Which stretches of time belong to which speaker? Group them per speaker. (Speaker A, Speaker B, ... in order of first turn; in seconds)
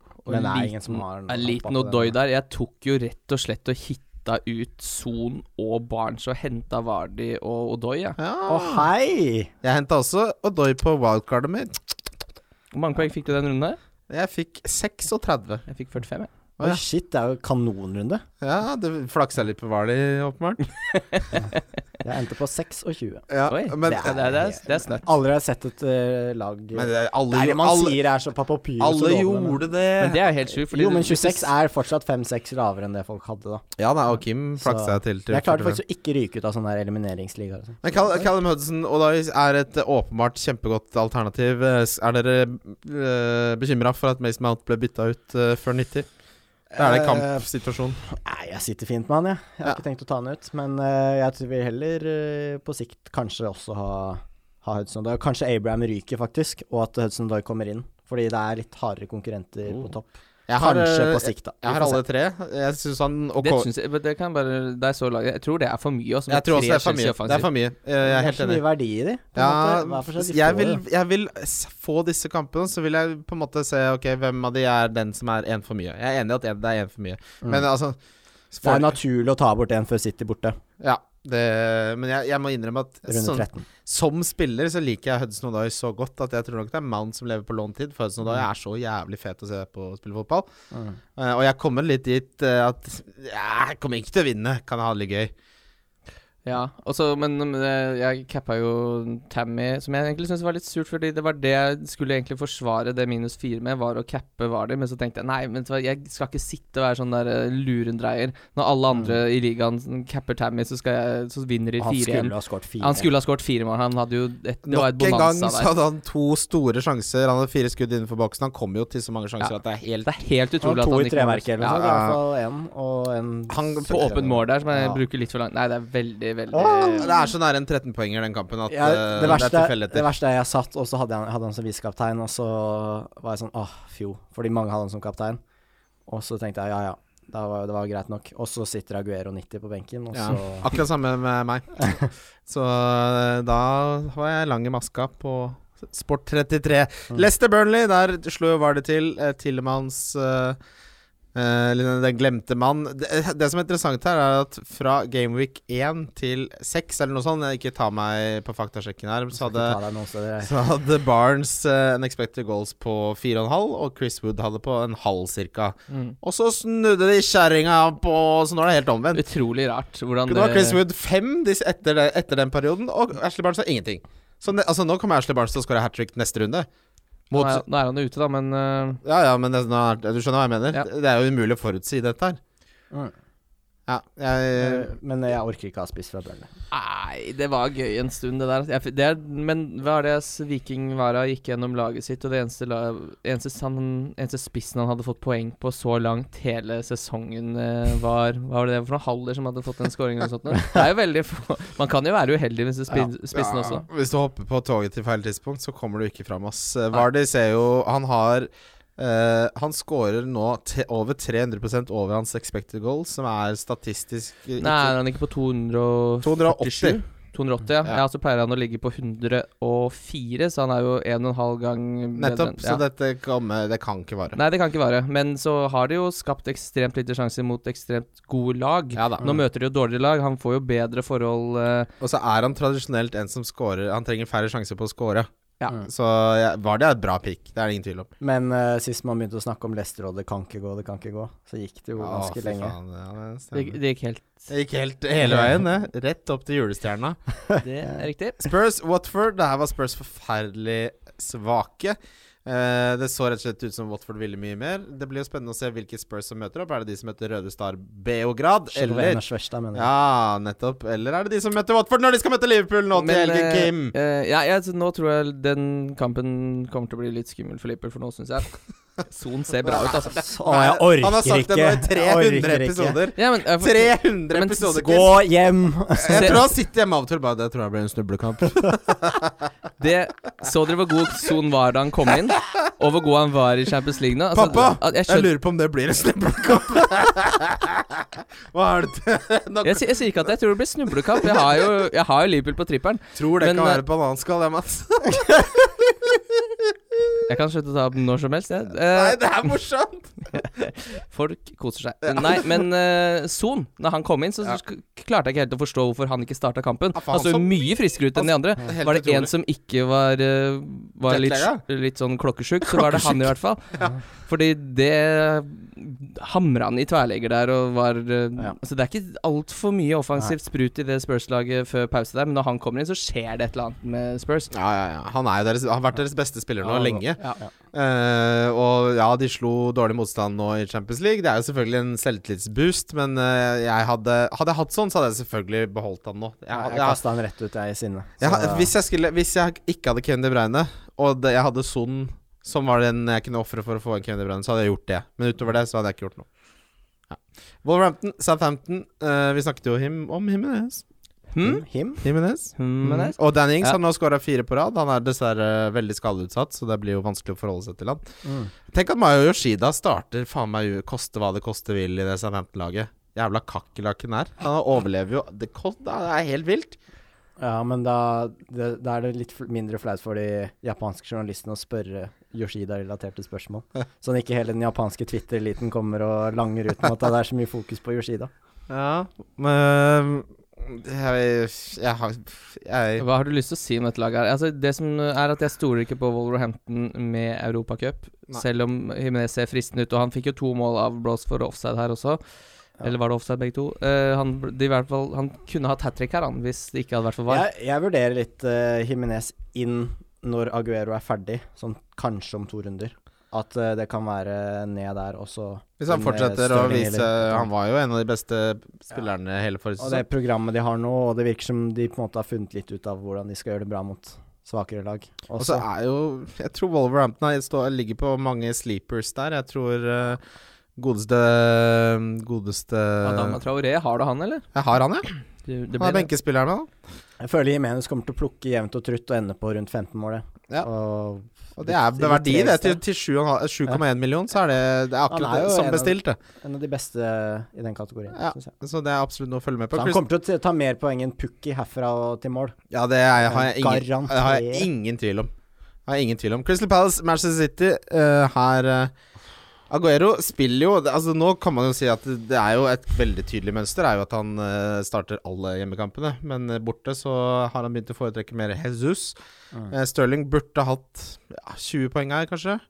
Speaker A: 0.2-8.2, 12.7-13.8, 15.7-16.3, 20.9-21.6, 23.5-25.1, 30.0-31.5, 63.4-67.5, 96.5-115.7, 119.4-121.8, 123.9-127.1, 165.9-166.2, 169.1-170.8, 177.3-179.0, 186.7-203.8, 214.6-222.8, 224.3-231.9, 243.5-244.5, 247.6-248.4, 262.9-268.5, 269.1-270.2, 273.2-274.8, 276.1-276.4, 279.8-285.3, 289.6-293.8, 297.3-299.2, 300.3-313.6, 314.2-324.5, 351.3-351.6, 352.6-353.8, 383.0-392.2, 392.8-397.4, 423.0-424.4, 425.4-426.1
Speaker B: 0.3-2.1, 8.5-9.5, 16.6-18.2, 22.0-23.3, 23.8-29.6, 30.5-33.6, 34.6-38.2, 46.7-47.4, 48.1-62.0, 68.0-70.8, 78.6-80.6, 83.1-83.7, 90.7-91.0, 108.9-109.2, 111.8-113.1, 120.6-125.0, 126.5-127.2, 128.7-135.4, 136.1-140.7, 159.3-160.5, 184.6-186.5, 238.2-242.8, 245.2-245.6, 258.7-259.9, 270.1-273.0, 274.7-276.4, 326.6-327.5, 336.5-338.7, 351.4-352.0, 358.2-358.5, 367.4-378.3, 397.3-407.5, 409.8-415.6, 427.2-432.8, 435.1-438.5, 439.7-442.6, 443.2-444.7
Speaker C: 8.2-8.9, 9.6-11.8, 14.1-15.7, 18.4-20.7, 23.3-24.3, 26.7-28.0, 28.8-30.2, 33.8-35.8, 37.8-46.1, 46.8-48.0, 60.5-63.7, 66.3-68.6, 69.4-78.0, 78.5-79.0, 80.8-90.5, 91.2-95.3, 114.7-120.1, 121.7-122.2, 123.5-124.1, 126.8-130.1, 140.1-150.6, 151.3-159.8, 160.4-169.2, 170.3-176.7, 177.3-177.6, 179.0-182.4, 183.9-184.9, 203.3-215.0, 216.2-217.0, 222.2-224.4, 229.0-229.3, 232.0-235.3, 235.8-238.1, 242.0-243.8, 244.5-247.2, 248.4-259.2, 259.7-263.9, 270.5-275.2, 276.0-279.3, 284.3-289.9, 293.1-296.7, 298.9-300.1, 302.1-302.4, 306.9-307.6, 308.1-309.3, 311.1-311.6, 312.6-313.9, 324.5-327.2, 327.7-337.0, 338.2-346.3, 347.1-350.8, 352.0-358.1, 358.7-366.8, 378.7-383.1, 405.8-410.1, 415.4-420.2, 420.8-423.4, 424.5-425.1, 425.8-426.7, 431.6-436.2, 438.1-440.0, 442.7-445.3, 445.9-448.9, 449.7-459.2, 459.7-462.6